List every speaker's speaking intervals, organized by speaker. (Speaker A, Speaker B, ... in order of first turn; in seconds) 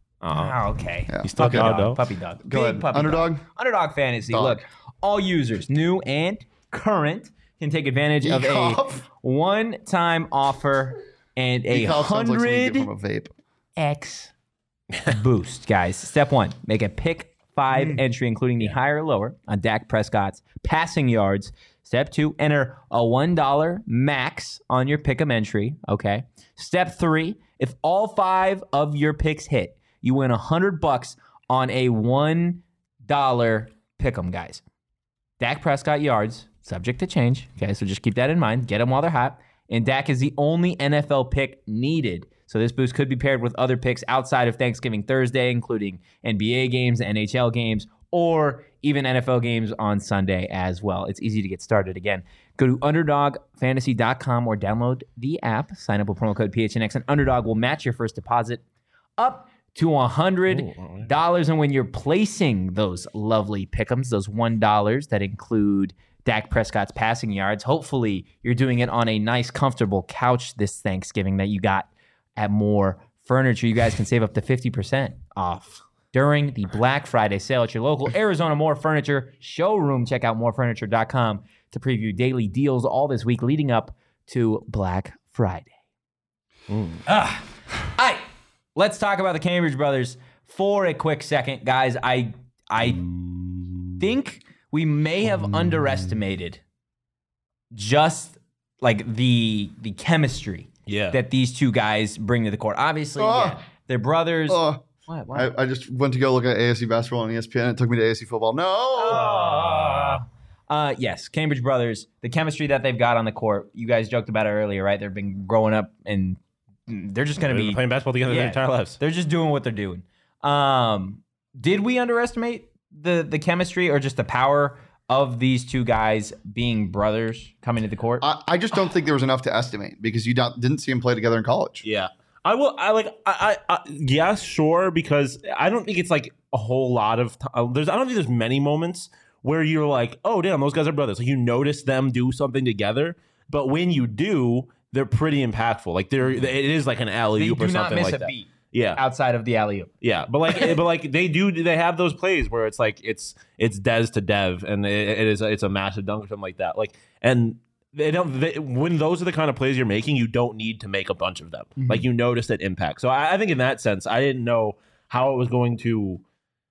Speaker A: 0.2-0.6, 1.2-2.0, 60.5-61.1, 86.7-87.0, 92.8-94.0, 100.9-101.2, 109.2-110.2, 117.4-119.0, 131.8-149.0, 150.0-166.2
Speaker B: 0.3-12.9, 13.8-14.3, 15.1-34.6, 35.4-58.6, 59.2-85.7, 87.0-93.0, 94.0-96.6, 97.7-105.5, 108.9-128.3, 147.3-149.9
Speaker C: 1.1-1.8, 2.4-3.4, 4.3-4.6, 8.2-9.1, 11.7-13.3, 17.7-18.0, 103.2-103.6, 104.5-109.4, 128.2-131.8